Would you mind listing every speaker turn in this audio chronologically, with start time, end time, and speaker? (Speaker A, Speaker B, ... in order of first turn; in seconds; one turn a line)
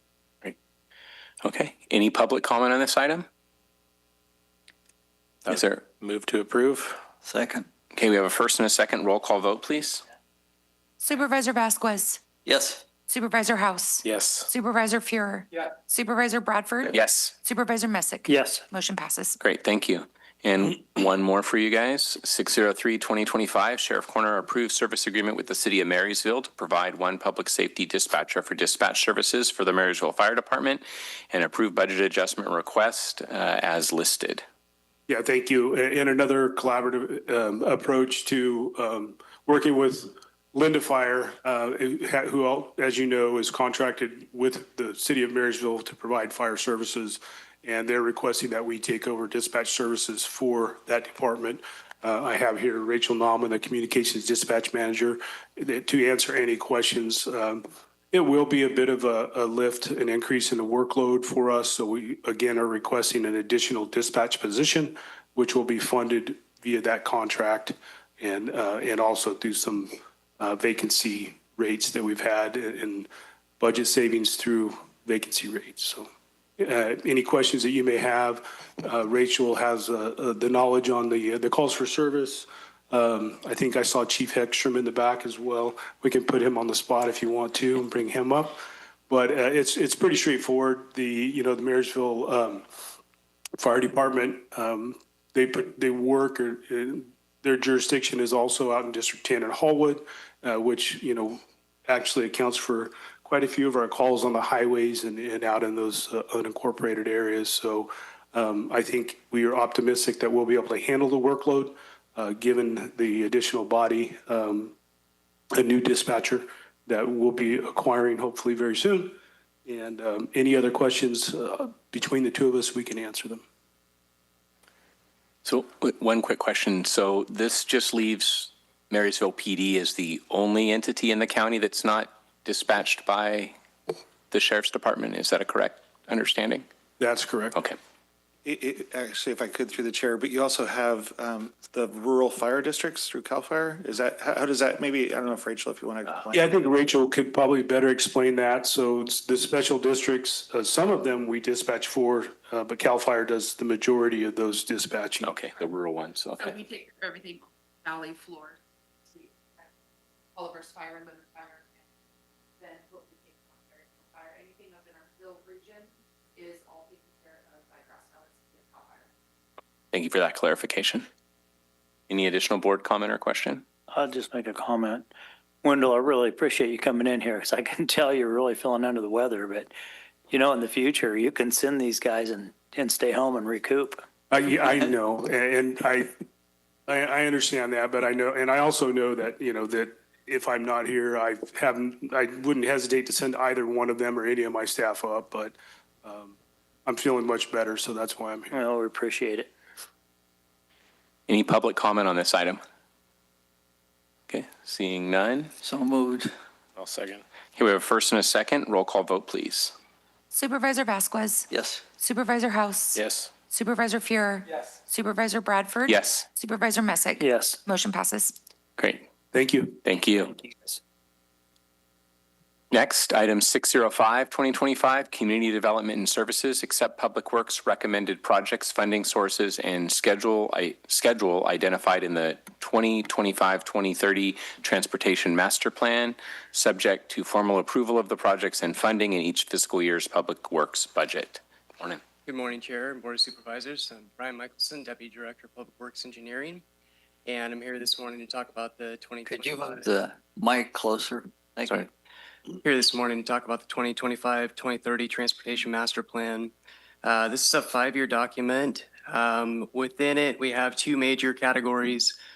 Speaker A: 1.4-3.2
Speaker A: 5.5-5.8
Speaker B: 5.5-7.0
Speaker C: 7.2-7.7
Speaker A: 7.9-10.0
Speaker D: 11.0-12.2
Speaker C: 12.4-12.8
Speaker D: 13.1-19.4
Speaker B: 14.0-14.4
Speaker A: 16.9-17.3
Speaker E: 18.3-18.6
Speaker A: 19.4-34.4
Speaker F: 35.1-73.1
Speaker F: 73.6-76.1
Speaker F: 76.6-92.6
Speaker F: 93.6-114.7
Speaker F: 115.5-123.4
Speaker A: 125.4-133.5
Speaker A: 134.3-136.7
Speaker F: 137.0-137.6
Speaker G: 138.4-146.7
Speaker F: 146.3-155.3
Speaker A: 155.2-156.6
Speaker H: 156.4-159.7
Speaker H: 160.3-161.8
Speaker H: 162.6-169.1
Speaker A: 169.9-171.1
Speaker A: 172.1-173.6
Speaker E: 173.9-175.1
Speaker E: 175.6-179.7
Speaker E: 180.3-184.0
Speaker F: 184.3-186.1
Speaker F: 186.9-198.5
Speaker E: 198.5-199.5
Speaker A: 201.3-202.6
Speaker A: 204.3-205.5
Speaker C: 205.6-206.3
Speaker B: 206.8-207.2
Speaker A: 207.6-209.7
Speaker D: 210.3-218.3
Speaker C: 211.5-211.8
Speaker B: 212.9-213.3
Speaker A: 215.8-216.2
Speaker E: 217.2-217.6
Speaker A: 218.8-219.1
Speaker F: 219.3-219.8
Speaker A: 219.8-220.3
Speaker A: 222.7-242.0
Speaker I: 242.2-246.6
Speaker I: 247.2-249.9
Speaker C: 249.2-251.8
Speaker I: 252.6-256.5
Speaker I: 257.0-262.1